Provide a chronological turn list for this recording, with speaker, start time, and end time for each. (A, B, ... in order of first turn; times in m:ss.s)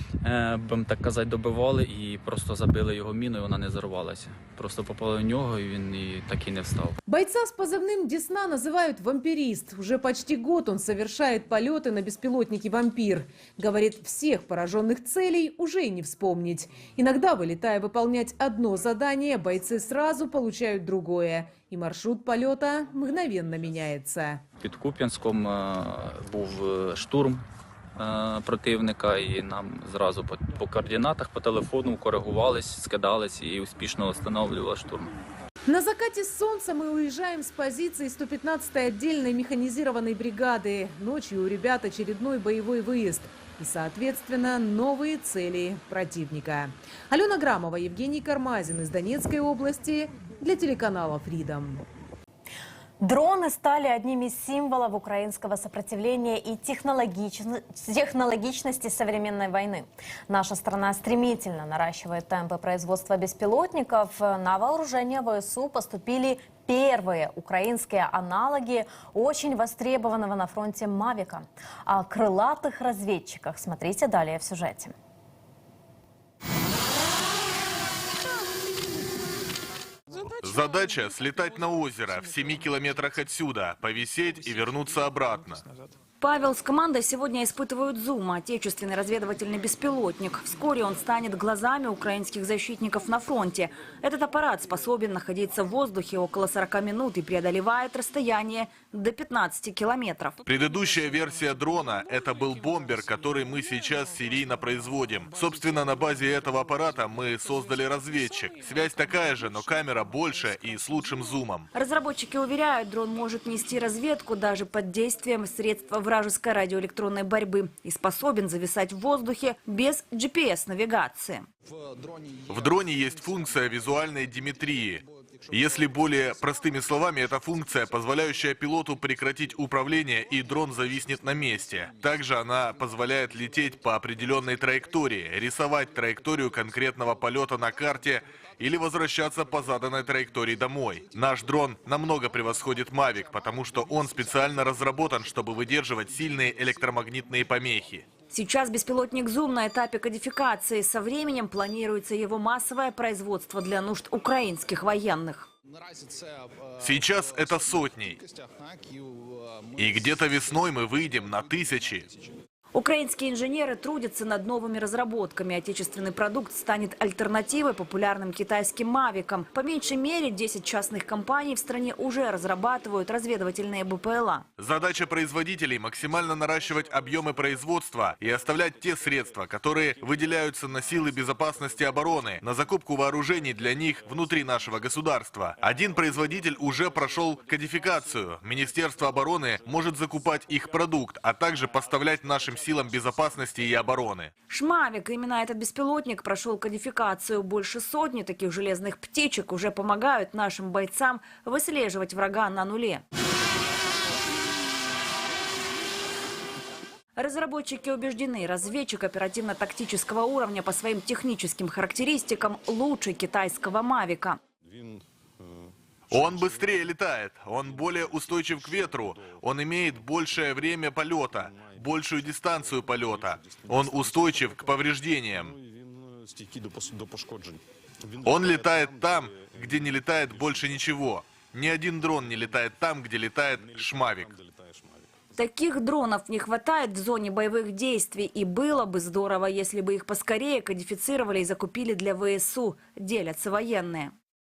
0:00.2-0:07.0 A
0:07.1-0:24.4 B
0:24.6-0:27.4 A
0:28.0-0:35.1 A
0:35.7-0:51.8 B
0:53.0-1:14.9 C
1:20.2-1:25.6 D
1:26.2-1:40.4 E
1:40.4-1:51.7 D
1:51.7-2:01.5 E
2:02.5-2:28.1 D
2:28.3-2:35.5 E
2:36.8-2:38.2 D
2:39.8-2:42.1 D
2:42.7-2:54.5 E
2:54.6-3:14.3 D
3:14.5-3:23.0 E
3:27.2-3:34.4 E
3:36.1-3:45.6 D
3:48.2-3:54.4 D
3:55.4-4:04.2 E